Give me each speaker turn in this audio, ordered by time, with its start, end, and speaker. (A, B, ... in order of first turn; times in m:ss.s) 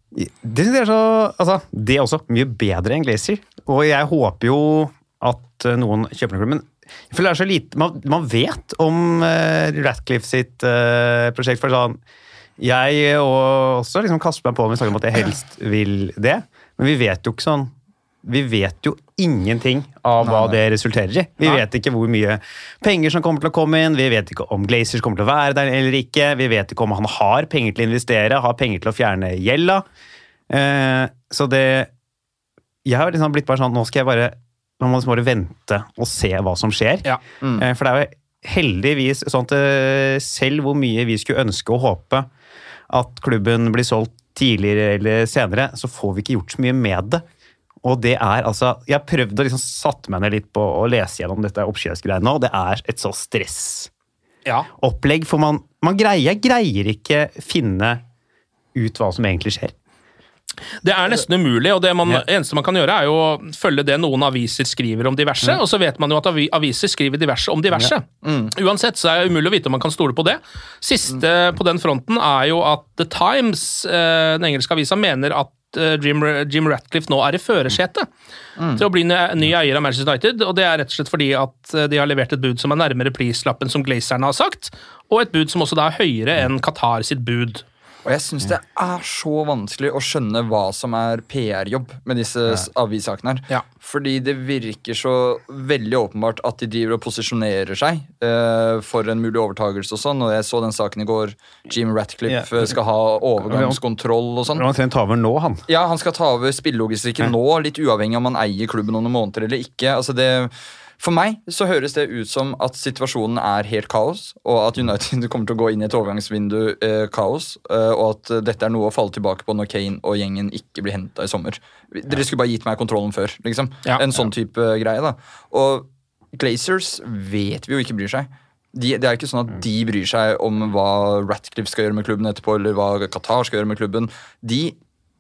0:00.1-0:12.0 A
0:12.6-0:29.8 A
0:20.2-0:20.6 B
0:30.5-0:31.9 A
0:32.8-0:42.3 A
0:42.9-0:47.2 A
0:47.8-0:53.9 A
0:54.8-0:58.0 A
0:58.8-0:59.7 A
1:00.8-1:18.1 C
1:08.2-1:08.5 B
1:18.6-1:18.8 B
1:18.8-1:27.6 C
1:28.0-1:44.7 B
1:42.3-1:42.8 A
1:43.4-1:43.8 A
1:44.5-1:45.6 A
1:45.7-2:14.8 B